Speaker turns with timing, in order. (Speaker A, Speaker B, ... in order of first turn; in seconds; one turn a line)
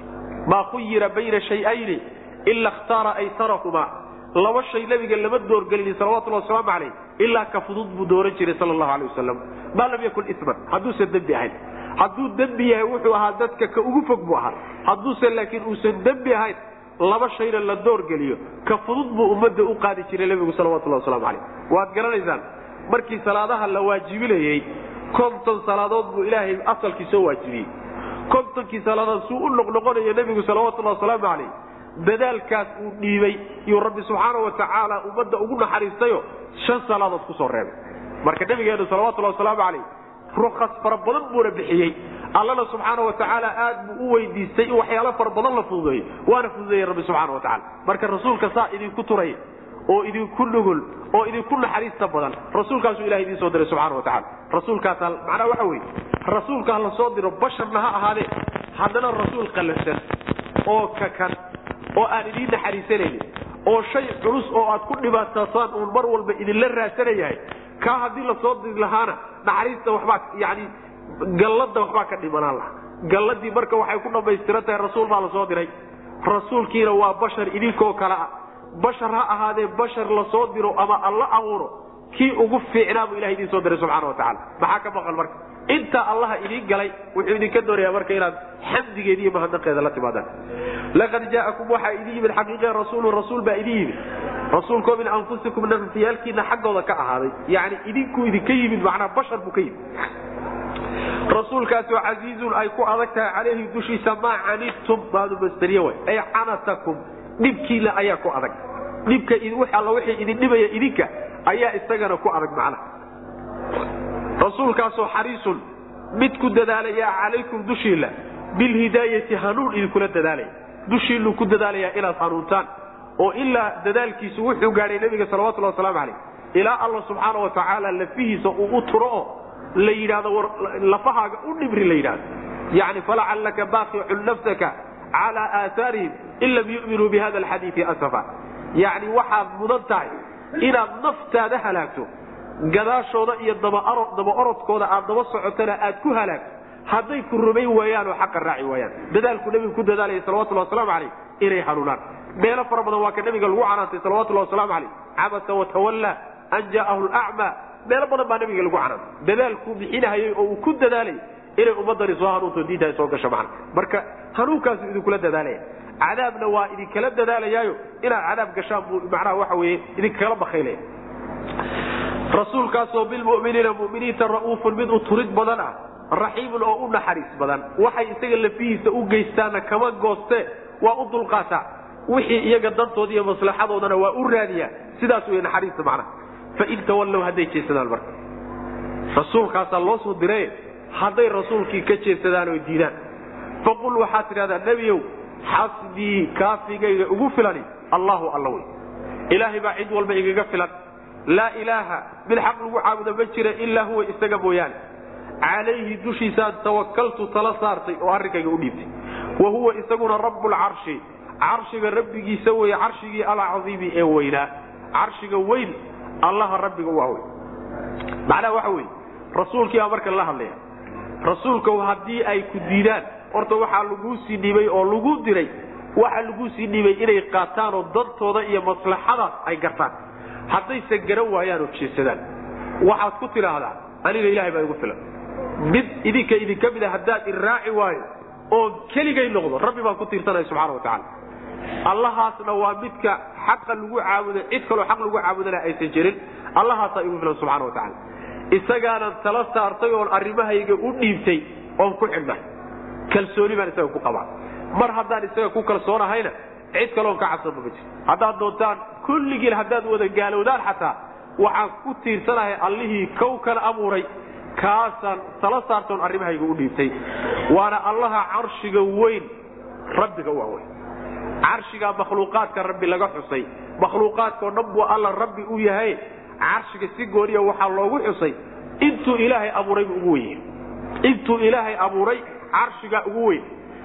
Speaker A: 0.5-27.7
Speaker A: 28.3-39.8
Speaker A: 40.3-60.0
Speaker A: 60.7-61.4
Speaker A: 62.0-75.7
Speaker A: 76.2-90.3
Speaker A: 90.9-94.0
Speaker A: 94.5-99.8
Speaker A: 101.3-112.8
Speaker A: 114.4-115.6
Speaker A: 116.1-122.7
Speaker A: 123.2-142.1
Speaker A: 142.6-170.8
Speaker A: 172.3-188.2
Speaker A: 189.1-192.9
Speaker A: 193.6-198.7
Speaker A: 199.3-200.7
Speaker A: 201.3-204.8
Speaker A: 205.4-217.2
Speaker A: 218.2-220.6
Speaker A: 221.2-229.9
Speaker A: 230.5-232.2
Speaker A: 232.8-235.0
Speaker A: 235.6-241.0
Speaker A: 241.9-247.9
Speaker A: 248.5-252.4
Speaker A: 253.1-269.3
Speaker A: 269.9-270.6
Speaker A: 271.4-280.4
Speaker A: 281.0-283.4